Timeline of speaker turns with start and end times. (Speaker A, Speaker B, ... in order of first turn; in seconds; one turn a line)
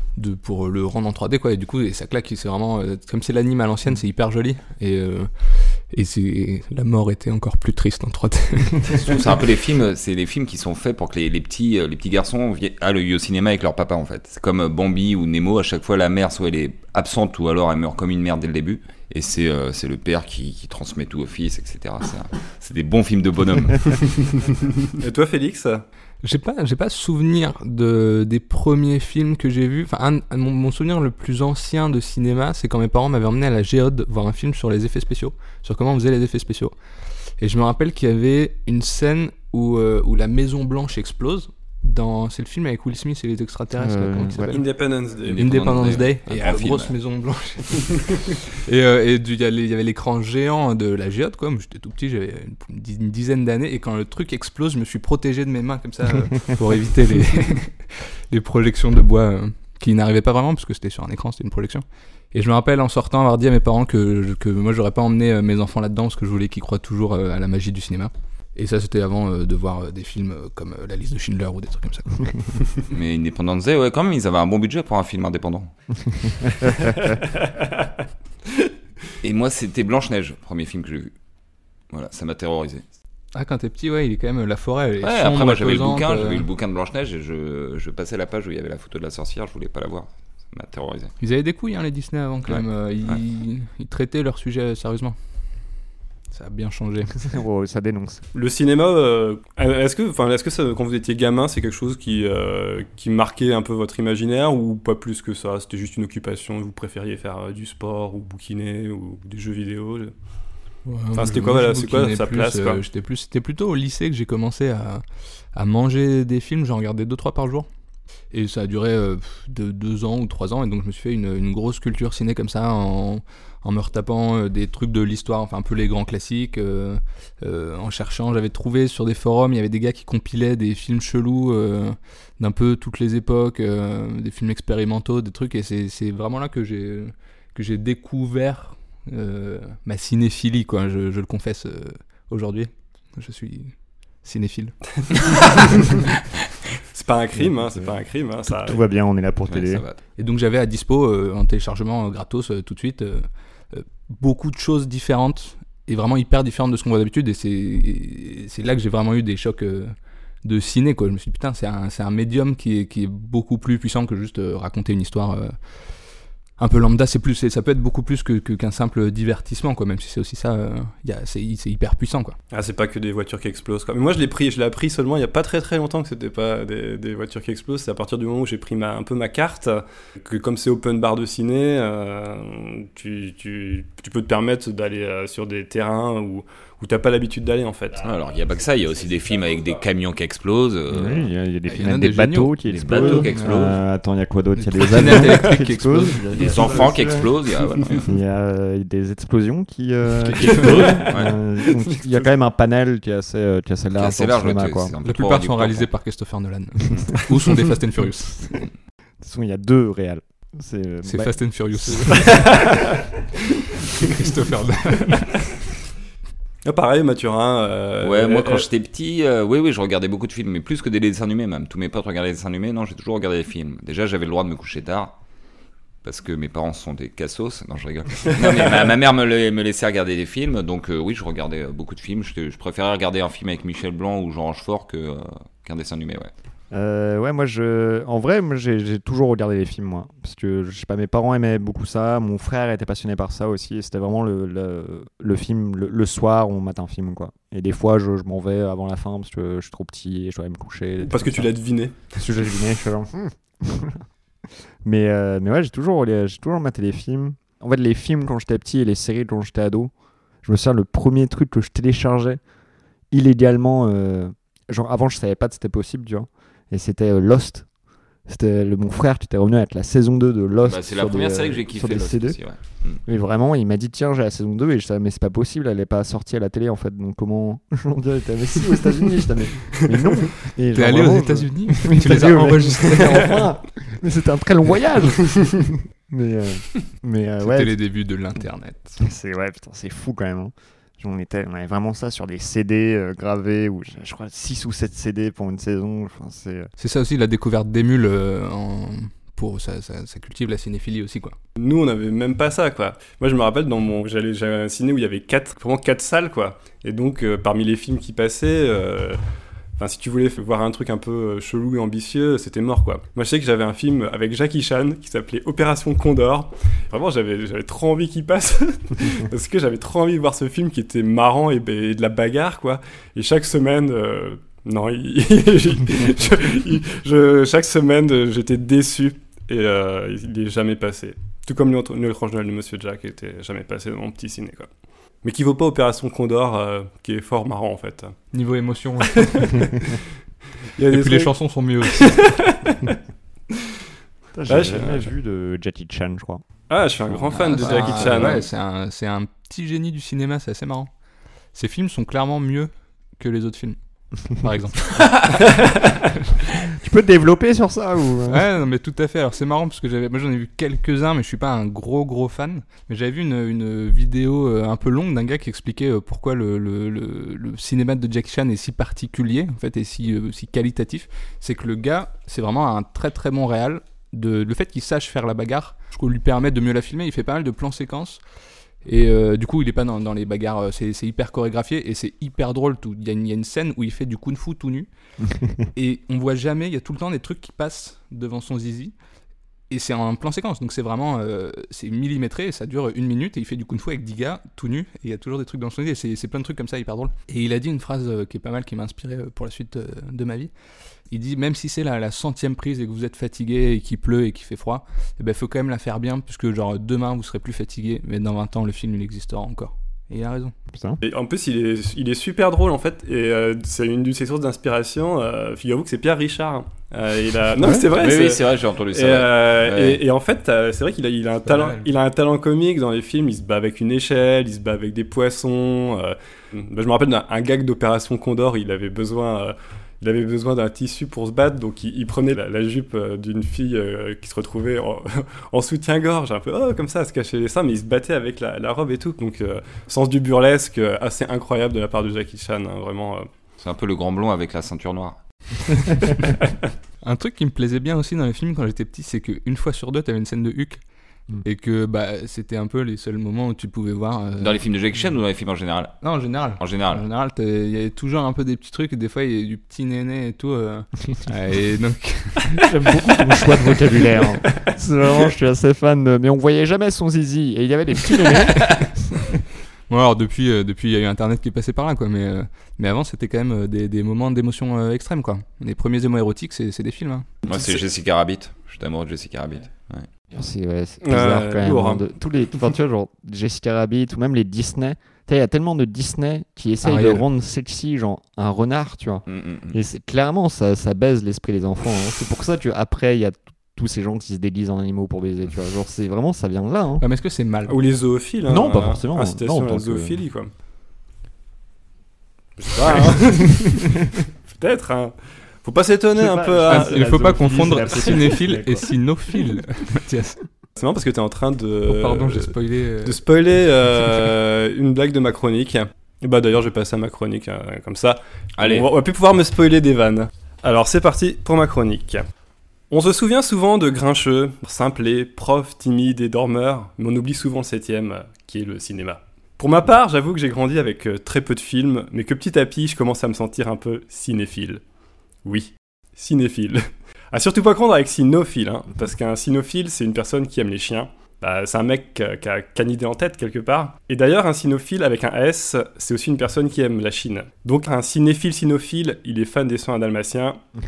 Speaker A: 0.1-9.2
Speaker B: 9.0-24.4
Speaker C: 24.9-25.8
Speaker A: 26.2-36.7
Speaker A: 37.4-44.7
Speaker D: 43.8-44.5
Speaker C: 44.5-45.8
Speaker B: 45.2-46.9
Speaker A: 45.4-72.6
Speaker B: 72.9-76.8
Speaker C: 77.0-77.9
Speaker B: 79.2-81.2
Speaker B: 81.9-82.8
Speaker A: 83.3-86.5
Speaker B: 85.0-91.1
Speaker A: 91.2-95.2
Speaker B: 92.5-93.2
Speaker A: 96.3-97.3
Speaker D: 97.2-98.2
Speaker C: 98.3-110.1
Speaker A: 110.8-115.0
Speaker C: 111.2-112.8
Speaker A: 115.5-117.7
Speaker A: 118.3-145.2
Speaker C: 145.1-146.0
Speaker C: 146.9-148.8
Speaker D: 147.4-147.9
Speaker D: 148.5-149.8
Speaker B: 149.5-150.0
Speaker A: 150.2-165.6
Speaker A: 166.6-172.4
Speaker C: 172.5-188.1
Speaker B: 188.0-191.3
Speaker D: 190.9-197.3
Speaker A: 191.7-193.6
Speaker B: 192.7-193.8
Speaker A: 194.6-196.3
Speaker B: 196.3-198.2
Speaker D: 198.0-204.9
Speaker A: 200.2-201.1
Speaker C: 200.5-201.2
Speaker B: 200.5-201.4
Speaker C: 201.7-202.2
Speaker B: 204.0-205.9
Speaker A: 205.0-208.7
Speaker D: 209.2-212.9
Speaker A: 211.1-212.8
Speaker A: 213.9-215.5
Speaker C: 216.7-218.7
Speaker B: 218.0-225.2
Speaker B: 226.0-236.3
Speaker D: 236.7-251.5
Speaker C: 251.0-252.3
Speaker D: 252.0-254.0
Speaker D: 254.8-259.9
Speaker D: 260.4-262.4
Speaker D: 263.1-267.7
Speaker D: 268.3-287.7
Speaker B: 270.7-273.0
Speaker A: 280.7-283.4
Speaker A: 287.4-289.0
Speaker D: 289.0-296.7
Speaker A: 296.8-301.4
Speaker C: 301.6-309.2
Speaker C: 309.8-334.7
Speaker C: 335.2-338.2
Speaker A: 338.3-339.8
Speaker C: 339.2-339.9
Speaker C: 340.8-343.0
Speaker A: 340.9-342.3
Speaker D: 344.3-346.4
Speaker C: 344.5-345.1
Speaker C: 346.7-348.4
Speaker D: 347.1-348.4
Speaker A: 347.3-350.9
Speaker A: 351.5-355.5
Speaker D: 356.7-358.4
Speaker A: 358.3-378.2
Speaker A: 378.8-384.9
Speaker D: 385.2-385.7
Speaker A: 385.8-388.9
Speaker A: 389.7-400.5
Speaker A: 401.1-410.5
Speaker D: 410.7-411.0
Speaker C: 411.0-443.3
Speaker B: 417.9-420.0
Speaker A: 421.5-421.9
Speaker B: 443.6-446.0
Speaker A: 447.0-450.8
Speaker A: 451.4-454.5
Speaker B: 454.4-457.0
Speaker A: 456.0-462.6
Speaker D: 462.6-469.3
Speaker A: 468.6-468.9
Speaker A: 469.9-477.3
Speaker B: 477.4-480.1
Speaker D: 480.3-497.0
Speaker C: 481.0-482.1
Speaker A: 486.8-487.2
Speaker B: 489.3-489.8
Speaker A: 497.0-497.8
Speaker C: 497.7-500.5
Speaker D: 498.5-500.2
Speaker C: 502.6-507.5
Speaker D: 503.0-504.1
Speaker D: 506.2-508.9
Speaker A: 506.7-510.5
Speaker C: 510.8-522.2
Speaker A: 511.9-513.2
Speaker B: 518.6-518.9
Speaker C: 522.9-534.8
Speaker C: 535.5-550.6